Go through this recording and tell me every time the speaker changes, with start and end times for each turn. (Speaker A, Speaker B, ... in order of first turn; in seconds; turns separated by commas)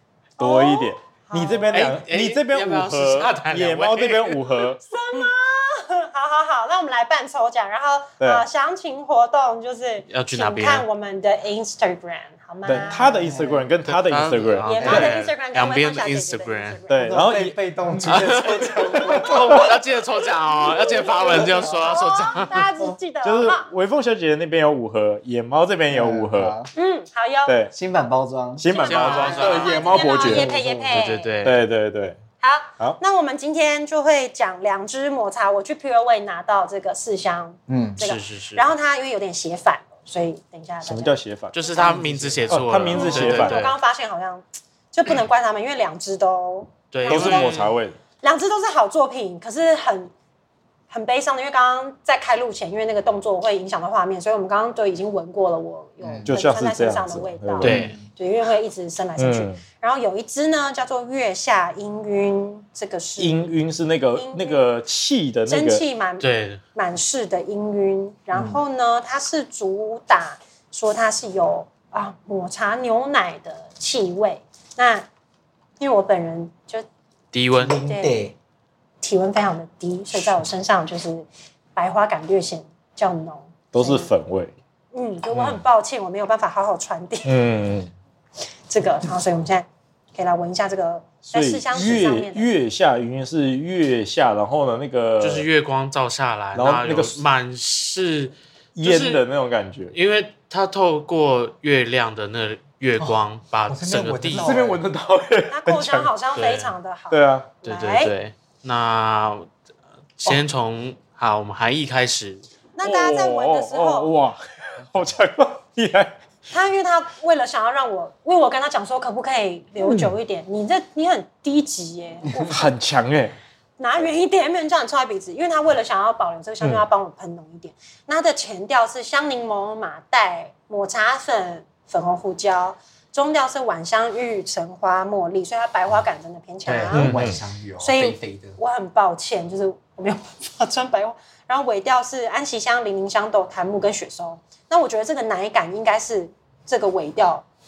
Speaker A: 0.4-4.8, Speaker B: 0.4-1.9, Speaker C: 1.7-4.5, Speaker B: 4.8-13.2, Speaker A: 8.2-8.4, Speaker C: 10.1-10.8, Speaker A: 12.6-15.0, Speaker D: 12.7-13.7, Speaker C: 13.9-16.8, Speaker D: 14.5-15.1, Speaker B: 14.6-17.2, Speaker A: 16.9-18.2, Speaker D: 17.0-19.8, Speaker C: 18.0-22.7, Speaker D: 20.9-23.0, Speaker B: 20.9-23.7, Speaker A: 23.2-26.5, Speaker D: 25.9-26.7, Speaker B: 26.7-27.6, Speaker A: 27.4-27.7, Speaker D: 27.7-30.9, Speaker A: 28.6-30.8, Speaker B: 28.7-31.3, Speaker C: 28.8-29.8, Speaker C: 30.9-31.6, Speaker A: 31.4-32.2, Speaker B: 32.4-41.9, Speaker D: 37.7-38.0, Speaker C: 38.0-38.7, Speaker A: 40.8-41.5, Speaker C: 41.5-43.8, Speaker D: 41.7-42.6, Speaker A: 42.5-43.6, Speaker B: 42.9-47.5, Speaker C: 46.9-47.8, Speaker A: 47.0-48.0, Speaker B: 48.2-50.1, Speaker B: 50.9-63.5, Speaker D: 56.0-56.4, Speaker A: 56.2-57.9, Speaker C: 57.6-58.0, Speaker D: 57.6-58.1, Speaker A: 59.2-59.6, Speaker A: 63.2-65.8, Speaker B: 64.1-64.7, Speaker B: 65.5-75.1, Speaker C: 66.2-66.6, Speaker B: 75.8-76.8, Speaker C: 77.3-77.8, Speaker D: 77.5-78.3, Speaker B: 77.8-78.2, Speaker B: 79.0-84.1, Speaker A: 83.7-84.5, Speaker B: 84.9-87.3, Speaker A: 85.3-85.6, Speaker A: 87.2-87.9, Speaker B: 88.7-92.5, Speaker A: 91.3-95.5, Speaker C: 95.2-99.2, Speaker A: 96.5-97.2, Speaker A: 98.7-99.9, Speaker C: 99.9-104.5, Speaker D: 103.7-104.8, Speaker A: 104.3-106.1, Speaker B: 105.5-108.1, Speaker C: 106.3-106.7, Speaker A: 107.1-107.5, Speaker C: 107.6-109.5, Speaker C: 110.2-112.5, Speaker B: 112.8-114.1, Speaker A: 112.8-116.1, Speaker B: 116.5-122.7, Speaker A: 119.8-120.1, Speaker A: 122.4-123.3, Speaker B: 123.8-137.1, Speaker D: 136.6-138.6, Speaker A: 136.9-137.4, Speaker B: 137.8-147.4